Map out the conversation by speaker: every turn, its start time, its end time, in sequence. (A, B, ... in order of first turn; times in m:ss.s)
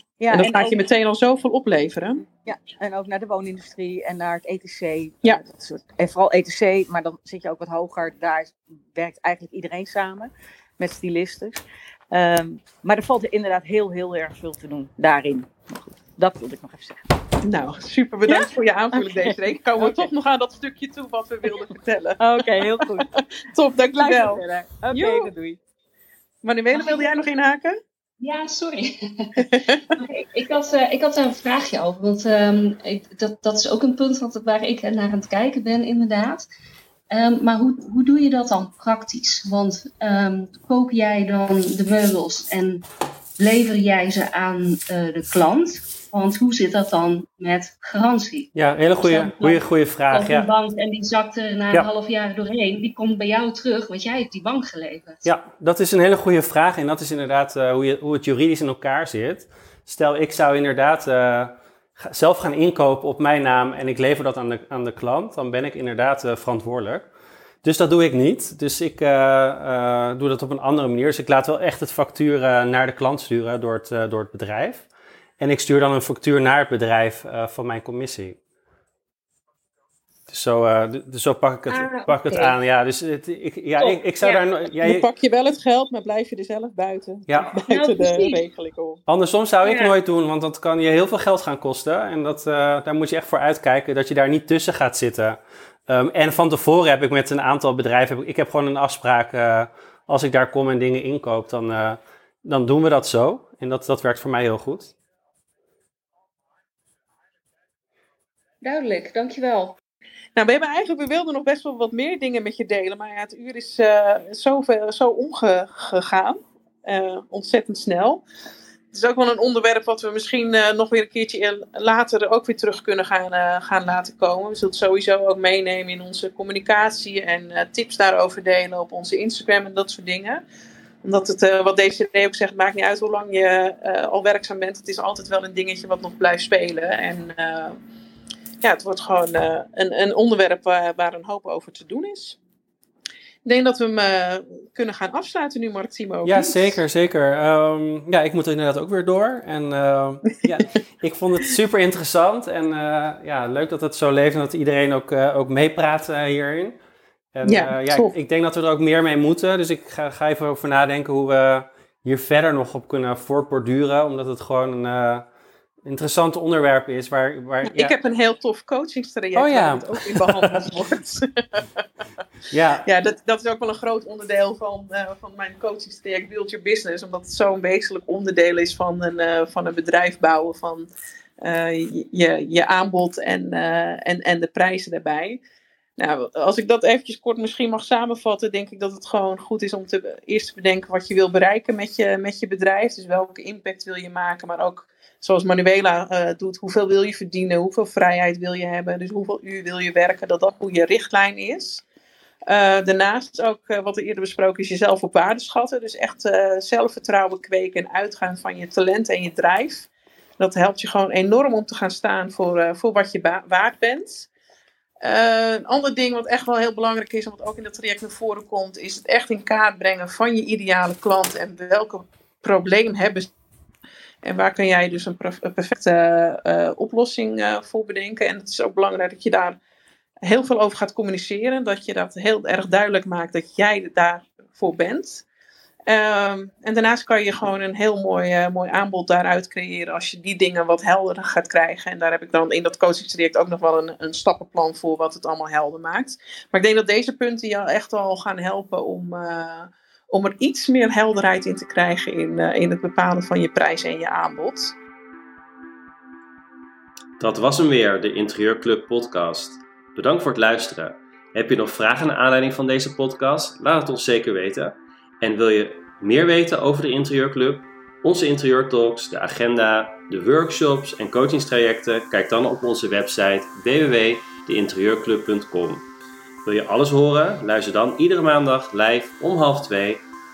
0:00.2-0:00.8 A
0:00.3-0:02.2 B
0:02.4-0:17.0 A
0:17.4-0:25.3 B
0:19.2-0:20.1 A
0:22.2-0:23.1 A
0:24.0-0:25.6 A
0:26.4-0:27.8 B
0:28.2-0:29.4 C
0:29.4-0:29.8 B
0:30.0-0:36.5 C
0:37.1-0:42.9 C
0:43.4-0:55.2 C
0:48.6-0:50.5 D
0:55.2-1:07.1 D
1:07.6-1:14.9 D
1:15.4-1:18.4 D
1:20.3-1:25.0 D
1:21.7-1:22.5 C
1:23.8-1:24.4 C
1:24.8-1:29.0 B
1:27.7-1:28.4 C
1:29.1-1:44.9 D
1:29.6-1:29.9 C
1:48.6-1:49.8 C
1:50.4-1:58.2 B
1:58.9-2:10.4 B
2:11.0-2:17.8 B
2:18.6-2:22.4 B
2:23.4-2:26.8 B
2:26.2-2:36.8 D
2:37.4-2:45.3 D
2:37.5-2:38.1 B
2:45.8-2:47.9 D
2:47.7-2:51.9 B
2:49.4-2:50.7 D
2:52.5-2:52.8 D
2:52.8-3:00.9 B
3:01.4-3:05.4 B
3:06.0-3:21.8 B
3:22.5-3:34.3 B
3:35.0-3:43.3 B
3:44.2-3:49.6 B
3:50.2-3:55.2 B
3:55.9-4:14.8 B
4:17.2-4:35.9 E
4:36.4-4:40.1 E